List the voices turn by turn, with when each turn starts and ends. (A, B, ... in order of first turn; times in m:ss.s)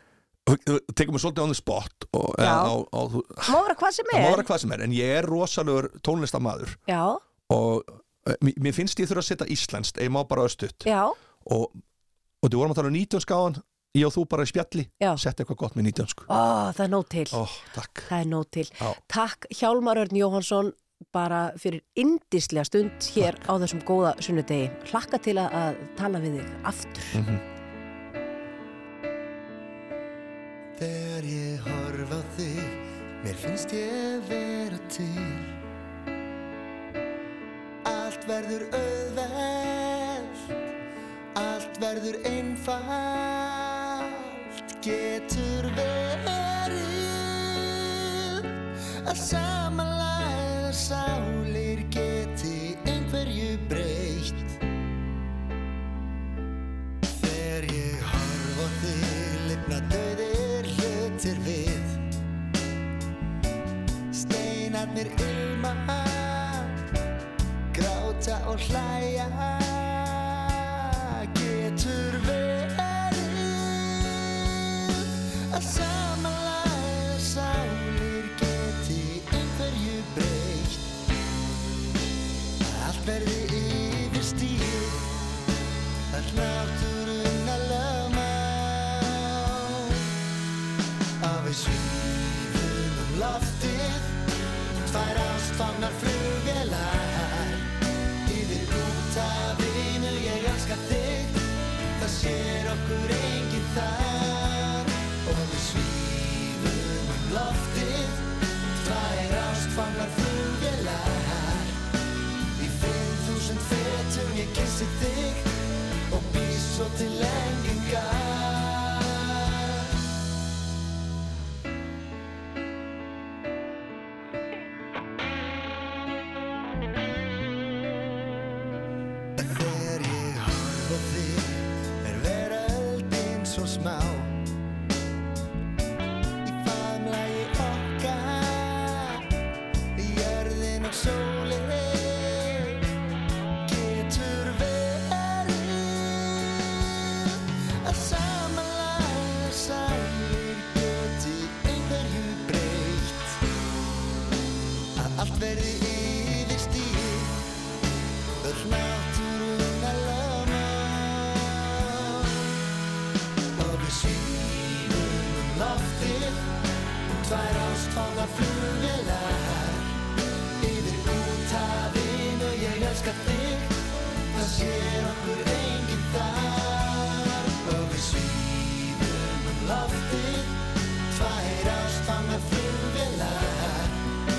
0:00.5-0:03.6 A
0:02.4-0:02.8 B
0:03.4-0:04.5 B
0:04.1-0:06.8 A
0:06.9-0:07.2 B
0:07.5-0:10.9 A
0:10.8-0:11.2 B
0:11.4-0:11.8 A
0:12.4-0:16.3 A
0:16.3-0:17.4 B
0:17.3-0:18.1 A
0:18.1-0:27.2 B
0:27.1-0:27.4 A
0:30.8-0:35.6 C
0:37.8-0:40.5 C
0:41.4-0:54.6 C
0:57.1-1:02.1 C
1:04.1-1:06.8 C
1:07.7-1:21.0 C
1:22.6-1:25.1 C
1:26.1-1:30.1 C
1:31.2-1:34.2 C
1:34.8-1:37.7 C
1:38.2-1:51.8 C
1:52.6-1:55.5 C
1:56.1-1:59.9 C
2:09.4-2:14.4 C
2:16.4-2:19.2 C
2:20.0-2:22.8 C
2:23.6-2:26.9 C
2:27.8-2:33.4 C
2:35.0-2:37.4 C
2:38.4-2:42.5 C
2:43.6-2:46.6 C
2:47.2-2:50.0 C
2:50.6-3:04.1 C